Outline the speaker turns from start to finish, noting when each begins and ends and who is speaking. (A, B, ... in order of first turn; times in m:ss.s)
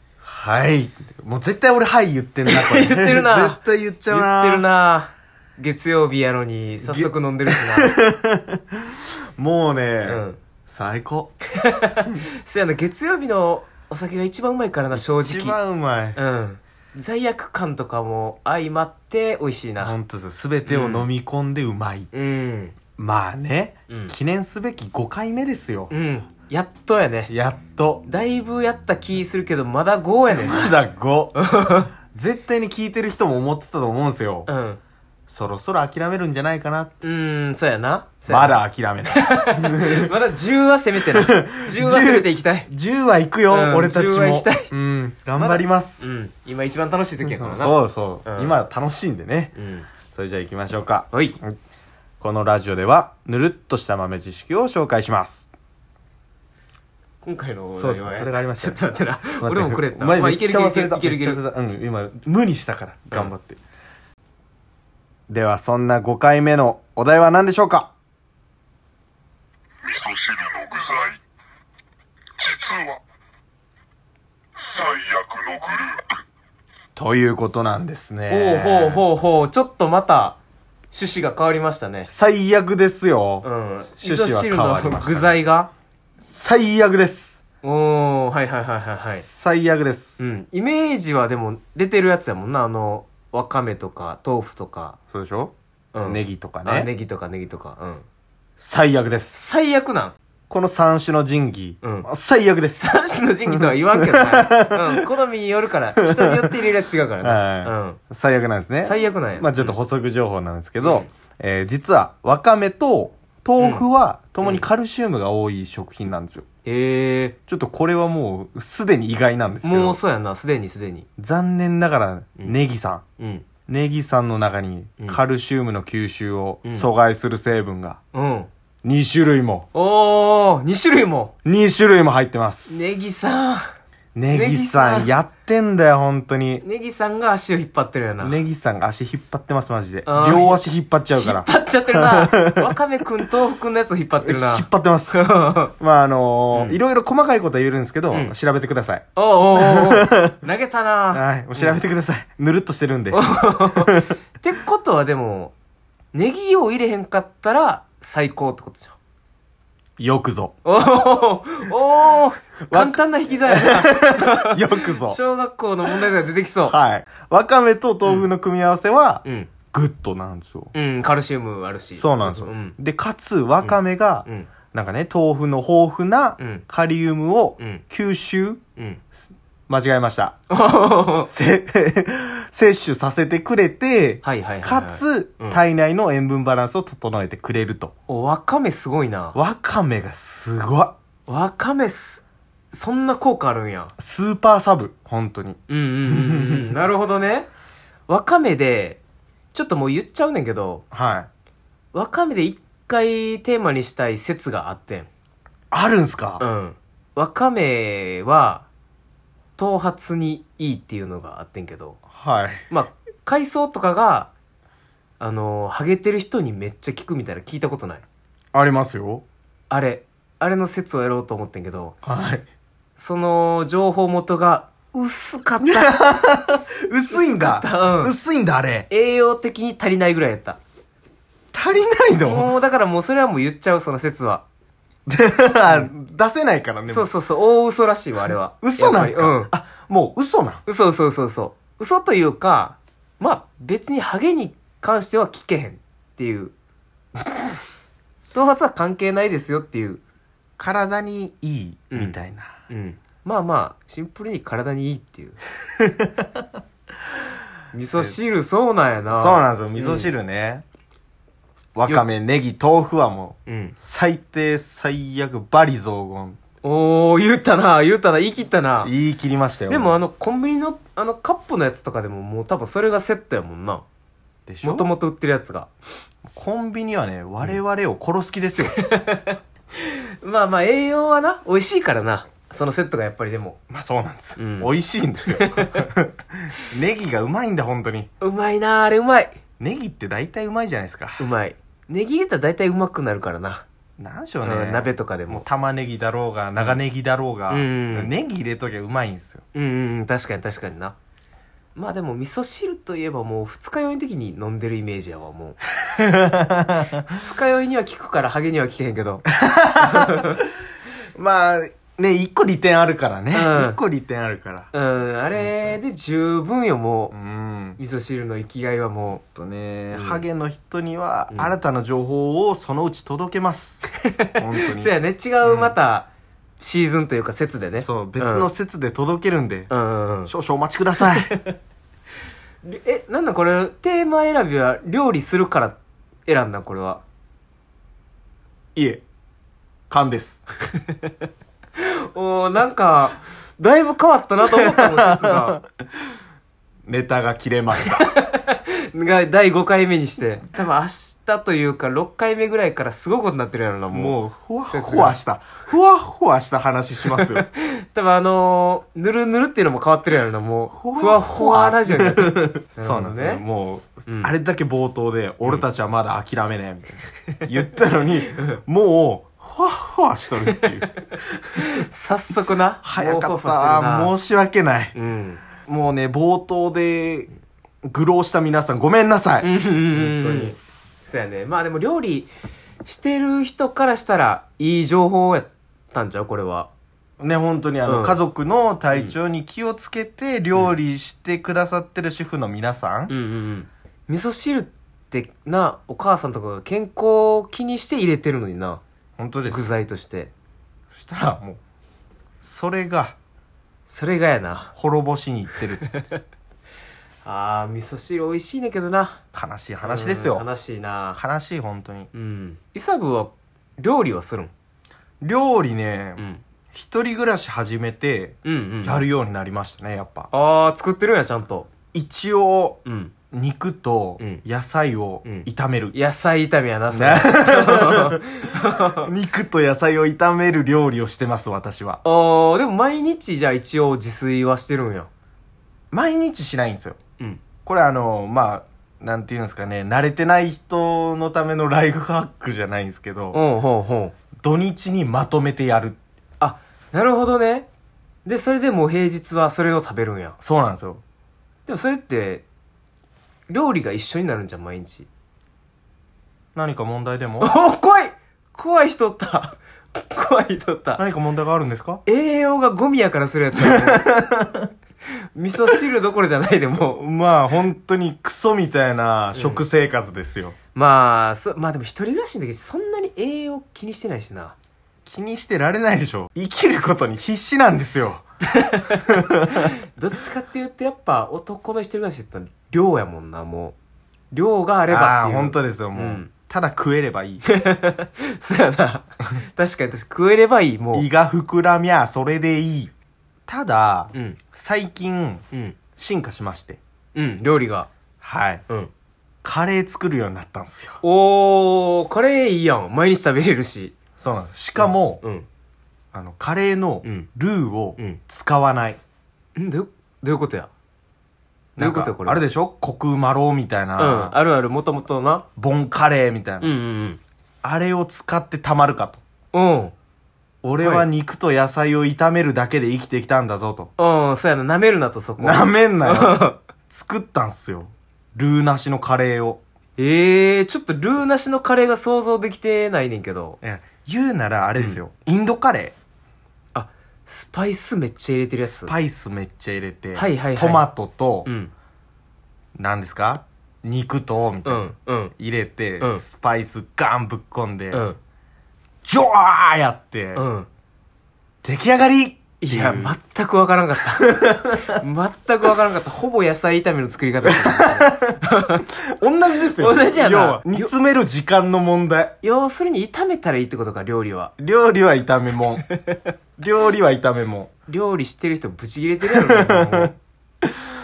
0:00.2-0:04.6 A
0:02.4-0:08.0 B
0:06.8-0:11.4 A
0:10.0-0:10.4 B
0:11.6-0:15.6 B
0:14.9-0:16.2 A
0:16.2-0:19.9 B
0:19.8-0:22.1 A
0:20.7-0:21.1 B
0:22.1-0:22.8 B
0:23.0-0:25.9 A
0:23.9-0:24.1 B
0:25.9-0:27.3 B
0:27.3-0:28.0 A
0:28.0-0:30.8 B
0:30.3-0:31.4 A
0:31.4-0:31.9 B
0:32.1-0:34.5 A
0:34.4-0:34.8 B
0:35.3-0:36.9 A
0:37.0-0:38.6 B
0:38.3-0:40.1 A
0:39.1-0:42.7 B
0:41.1-0:46.1 A
0:43.5-0:44.7 B
0:45.4-0:48.5 B
0:47.2-0:49.5 A
0:49.5-0:49.9 B
0:50.1-0:51.6 A
0:51.1-0:51.4 B
0:52.2-0:55.5 A
0:57.2-1:01.4 B
0:57.7-0:58.8 A
0:59.4-1:03.6 A
1:05.3-1:07.9 A
1:10.3-1:11.1 C
1:14.8-1:15.8 C
1:17.0-1:19.0 A
1:18.3-1:20.4 B
1:20.9-1:22.1 B
1:22.1-1:23.5 A
1:23.4-1:25.7 B
1:24.0-1:25.4 A
1:26.2-1:27.4 A
1:27.6-1:29.2 B
1:29.0-1:30.3 A
1:30.2-1:35.0 B
1:35.1-1:36.9 A
1:35.9-1:38.0 B
1:38.6-1:39.4 A
1:39.3-1:40.1 B
1:40.5-1:42.9 A
1:41.8-1:42.1 B
1:42.8-1:48.0 B
1:43.5-1:45.0 A
1:46.0-1:46.5 A
1:47.2-1:56.4 A
1:48.8-1:49.8 B
1:50.8-1:51.1 B
1:53.6-1:53.8 B
1:56.6-1:57.4 B
1:57.5-2:00.0 A
1:59.6-2:01.0 B
2:01.2-2:03.0 A
2:03.2-2:03.4 B
2:03.7-2:08.0 A
2:08.1-2:08.5 B
2:08.8-2:09.6 A
2:09.7-2:11.3 B
2:11.4-2:13.0 A
2:12.7-2:13.7 B
2:14.1-2:16.6 A
2:14.3-2:15.1 B
2:16.6-2:18.4 B
2:18.2-2:22.7 A
2:20.0-2:20.6 B
2:21.2-2:25.7 B
2:24.2-2:30.3 A
2:26.5-2:26.8 B
2:29.2-2:31.8 B
2:31.1-2:34.1 A
2:33.1-2:35.5 B
2:36.1-2:39.0 B
2:40.0-2:40.5 A
2:40.6-2:46.7 B
2:42.7-2:45.2 A
2:46.6-2:50.7 A
2:49.2-2:49.5 B
2:50.7-2:52.8 B
2:52.0-2:58.6 A
2:53.6-2:54.5 B
2:56.4-2:56.6 B
2:58.8-2:59.0 B
2:59.7-3:00.4 A
3:00.5-3:01.3 B
3:01.2-3:07.9 A
3:04.2-3:05.6 B
3:08.1-3:09.4 B
3:09.3-3:10.9 A
3:11.3-3:13.9 B
3:14.0-3:16.7 A
3:15.7-3:17.5 B
3:18.1-3:19.0 B
3:19.5-3:20.8 B
3:20.9-3:21.3 A
3:21.9-3:25.1 B
3:25.7-3:26.4 A
3:26.4-3:28.6 B
3:29.6-3:32.0 B
3:32.1-3:32.6 A
3:32.7-3:34.3 B
3:35.2-3:38.0 B
3:38.5-3:39.2 A
3:39.7-3:42.0 B
3:42.0-3:42.4 A
3:43.0-3:46.0 B
3:45.6-3:48.9 A
3:47.1-3:48.1 B
3:48.9-3:50.6 B
3:51.5-3:52.5 A
3:52.2-3:54.4 B
3:55.1-3:57.1 A
3:56.9-3:59.5 B
3:58.6-4:00.6 A
4:00.6-4:06.5 B
4:08.3-4:10.0 B
4:10.6-4:12.5 A
4:11.9-4:12.2 B
4:12.7-4:15.4 B
4:15.8-4:16.4 A
4:17.7-4:20.1 B
4:19.1-4:20.6 A
4:21.7-4:26.4 A
4:23.4-4:23.7 B
4:26.6-4:28.9 B
4:28.8-4:30.0 A
4:29.7-4:33.8 B
4:34.5-4:34.9 A
4:34.6-4:35.7 B
4:36.3-4:38.8 A
4:38.7-4:43.6 B
4:43.7-4:48.1 A
4:44.4-4:44.7 B
4:45.2-4:45.8 B
4:48.2-4:49.4 B
4:49.6-4:51.3 A
4:51.2-4:53.6 B
4:54.0-4:59.4 A
4:54.4-4:55.4 B
4:57.5-4:58.1 B
4:59.5-5:00.9 B
5:01.7-5:05.6 B
5:05.8-5:07.0 A
5:07.1-5:09.2 B
5:09.3-5:10.4 A
5:09.8-5:10.4 B
5:11.1-5:14.7 A
5:13.3-5:13.8 B
5:14.7-5:17.1 B
5:15.3-5:15.8 A
5:17.1-5:17.8 A
5:17.8-5:19.2 B
5:19.3-5:24.9 A
5:19.9-5:20.2 B
5:24.0-5:26.1 B
5:25.4-5:25.7 A
5:26.6-5:28.5 B
5:27.8-5:29.7 A
5:29.7-5:30.3 B
5:30.3-5:31.3 A
5:31.0-5:31.5 B
5:32.6-5:37.0 B
5:38.7-5:39.0 A
5:39.9-5:40.4 A
5:40.8-5:41.1 B
5:41.8-5:45.6 B
5:44.5-5:45.7 A
5:46.9-5:48.1 A
5:47.8-5:54.2 B
5:53.9-5:57.5 A
5:54.7-5:55.2 B
5:57.1-6:03.4 B
6:00.7-6:11.6 A
6:11.5-6:14.1 B
6:12.8-6:15.0 A
6:14.9-6:15.4 B
6:15.6-6:17.3 A
6:17.8-6:20.6 A
6:19.4-6:22.3 B
6:22.8-6:26.7 B
6:27.2-6:33.1 A
6:27.8-6:28.2 B
6:33.1-6:38.8 B
6:39.2-6:39.6 A
6:39.5-6:40.3 B
6:40.9-6:41.6 A
6:42.4-6:43.1 A
6:43.9-6:44.7 B
6:44.7-6:45.8 A
6:45.8-6:46.2 B
6:47.2-6:49.2 B
6:49.3-6:50.4 A
6:49.8-6:51.2 B
6:51.2-6:52.1 A
6:52.1-6:54.5 B
6:55.2-7:00.3 A
6:56.2-6:56.4 B
6:58.4-6:59.0 B
7:00.3-7:01.7 B
7:01.9-7:02.8 A
7:02.8-7:03.1 B
7:03.3-7:05.9 A
7:05.2-7:09.1 B
7:06.9-7:12.0 A
7:12.0-7:15.1 B
7:15.9-7:17.0 A
7:17.6-7:23.4 A
7:23.3-7:24.1 B
7:24.4-7:26.0 A
7:26.4-7:27.7 B
7:28.2-7:30.4 B
7:30.4-7:31.0 A
7:31.6-7:32.4 B
7:33.5-7:35.1 B
7:36.5-7:37.5 A
7:37.4-7:41.0 B
7:41.0-7:42.0 A
7:42.0-7:44.0 B
7:43.6-7:44.7 A
7:45.3-7:47.0 B
7:46.9-7:50.5 A
7:49.3-7:49.6 B
7:50.7-7:54.5 B
7:55.0-7:58.2 A
7:58.5-8:03.7 B
7:59.1-7:59.6 A
8:04.3-8:06.3 B
8:04.9-8:07.4 A
8:07.4-8:11.1 B
8:10.9-8:12.9 A
8:13.5-8:15.4 A
8:14.1-8:14.4 B
8:16.0-8:16.8 A
8:17.1-8:17.9 B
8:18.2-8:18.6 A
8:19.4-8:21.0 A
8:21.0-8:23.9 B
8:24.2-8:25.2 A
8:24.8-8:25.5 B
8:26.1-8:29.0 A
8:29.6-8:30.7 B
8:31.8-8:34.4 A
8:31.8-8:32.4 B
8:34.0-8:35.4 B
8:35.6-8:36.7 A
8:36.6-8:37.2 B
8:37.6-8:39.2 A
8:39.5-8:39.9 B
8:40.6-8:43.9 A
8:40.8-8:41.0 B
8:44.0-8:46.6 B
8:45.4-8:49.6 A
8:50.0-8:53.6 B
8:53.6-8:55.9 A
8:56.7-8:58.9 B
8:58.6-9:01.5 A
9:00.1-9:00.8 B
9:01.4-9:01.7 B
9:02.8-9:08.0 A
9:04.6-9:05.3 B
9:07.9-9:08.2 B
9:09.0-9:10.5 A
9:10.3-9:10.7 B
9:11.6-9:13.2 A
9:12.6-9:18.8 B
9:14.3-9:14.6 A
9:17.4-9:18.4 A
9:19.2-9:22.3 A
9:19.8-9:20.9 B
9:22.4-9:24.5 B
9:24.6-9:25.8 A
9:26.6-9:27.7 A
9:27.9-9:30.1 B
9:29.3-9:30.1 A